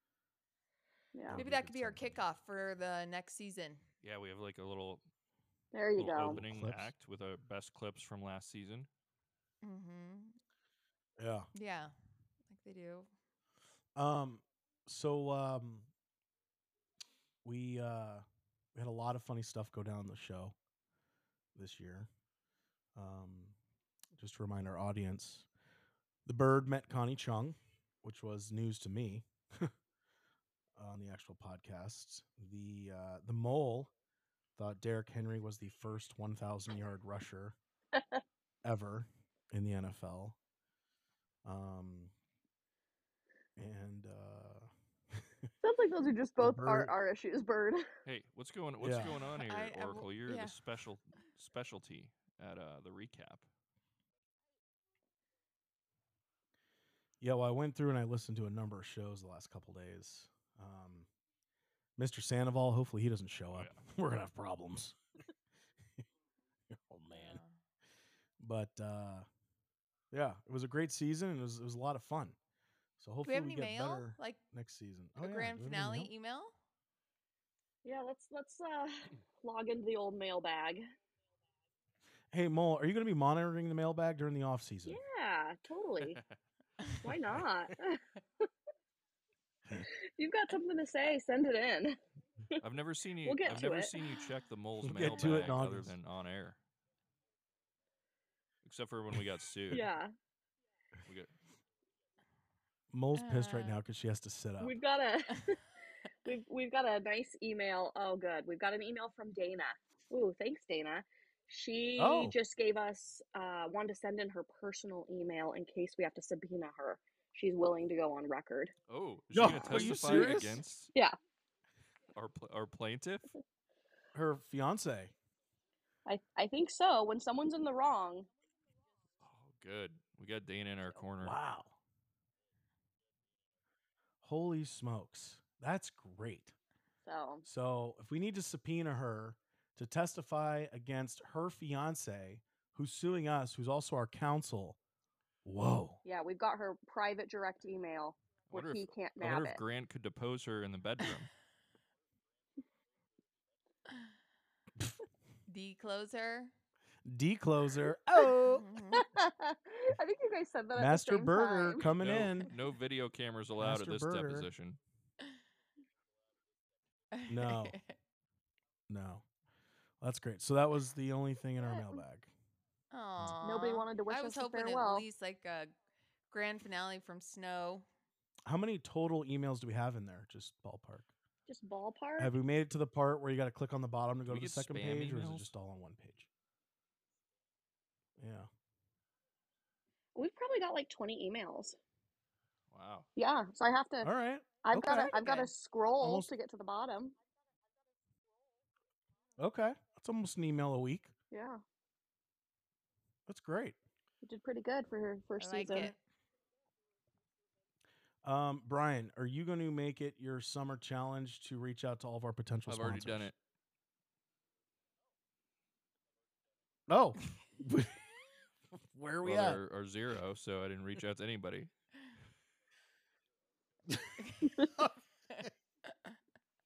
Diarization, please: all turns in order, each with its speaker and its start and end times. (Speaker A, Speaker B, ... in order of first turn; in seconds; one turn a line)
Speaker A: 1.1-1.4
Speaker B: 1.3-2.2
Speaker C: 1.3-3.8
Speaker D: 4.0-5.0
Speaker A: 5.7-6.4
Speaker D: 6.0-8.9
Speaker B: 6.2-6.9
Speaker C: 9.6-10.4
Speaker B: 11.2-11.5
Speaker C: 11.5-11.9
Speaker C: 12.5-13.1
Speaker B: 14.0-15.9
Speaker B: 17.4-18.2
Speaker B: 18.8-20.6
Speaker B: 21.6-22.1
Speaker B: 22.9-23.6
Speaker B: 24.1-25.5
Speaker B: 26.3-29.7
Speaker B: 30.8-33.9
Speaker B: 34.6-37.6
Speaker A: 38.0-38.2
Speaker B: 38.6-40.4
Speaker B: 41.5-42.1
Speaker B: 43.6-45.5
Speaker A: 45.6-47.9
Speaker B: 46.4-47.0
Speaker D: 48.0-53.5
Speaker B: 48.8-49.2
Speaker C: 49.1-50.6
Speaker B: 57.2-61.1
Speaker B: 62.0-65.0
Speaker B: 66.7-67.4
Speaker C: 67.1-67.6
Speaker B: 68.4-69.3
Speaker B: 70.1-72.4
Speaker B: 73.0-76.1
Speaker C: 73.2-74.4
Speaker C: 75.2-76.5
Speaker A: 77.8-80.8
Speaker B: 82.3-85.0
Speaker A: 84.9-86.2
Speaker A: 87.0-88.0
Speaker A: 89.8-92.0
Speaker D: 92.6-96.6
Speaker A: 93.2-94.0
Speaker B: 94.8-96.0
Speaker C: 95.0-95.5
Speaker D: 98.6-99.9
Speaker A: 99.7-100.1
Speaker D: 101.1-101.3
Speaker B: 102.9-104.8
Speaker C: 103.1-103.8
Speaker A: 104.6-105.6
Speaker A: 106.2-118.7
Speaker B: 112.0-112.4
Speaker D: 118.9-120.9
Speaker B: 119.3-120.6
Speaker A: 119.5-120.4
Speaker D: 122.2-123.3
Speaker B: 124.1-125.1
Speaker A: 126.1-128.3
Speaker D: 129.2-131.4
Speaker B: 131.2-131.8
Speaker B: 134.2-136.6
Speaker A: 137.0-137.4
Speaker B: 137.4-144.8
Speaker B: 145.4-146.0
Speaker A: 146.0-149.6
Speaker D: 148.5-151.3
Speaker C: 155.5-156.5
Speaker B: 157.1-158.7
Speaker C: 158.5-159.1
Speaker A: 158.9-161.9
Speaker B: 160.8-162.5
Speaker D: 162.0-164.8
Speaker B: 163.6-164.5
Speaker C: 167.1-168.0
Speaker B: 167.3-167.8
Speaker B: 168.9-169.2
Speaker B: 170.0-172.3
Speaker A: 171.6-172.0
Speaker C: 172.9-175.7
Speaker A: 173.4-175.1
Speaker C: 176.3-177.9
Speaker B: 178.5-181.1
Speaker A: 181.5-182.3
Speaker B: 182.2-186.3
Speaker D: 184.3-185.5
Speaker B: 188.2-188.5
Speaker A: 190.2-191.8
Speaker D: 192.7-193.1
Speaker A: 193.2-194.1
Speaker B: 194.0-195.2
Speaker A: 194.6-197.2
Speaker C: 194.9-195.5
Speaker B: 196.0-196.3
Speaker B: 199.4-201.1
Speaker A: 201.3-201.6
Speaker B: 203.3-203.8
Speaker A: 204.2-205.9
Speaker C: 205.4-206.0
Speaker B: 208.2-213.3
Speaker D: 212.7-213.4
Speaker B: 216.9-218.0
Speaker B: 218.7-219.6
Speaker D: 219.2-221.7
Speaker B: 223.9-225.5
Speaker C: 224.2-224.6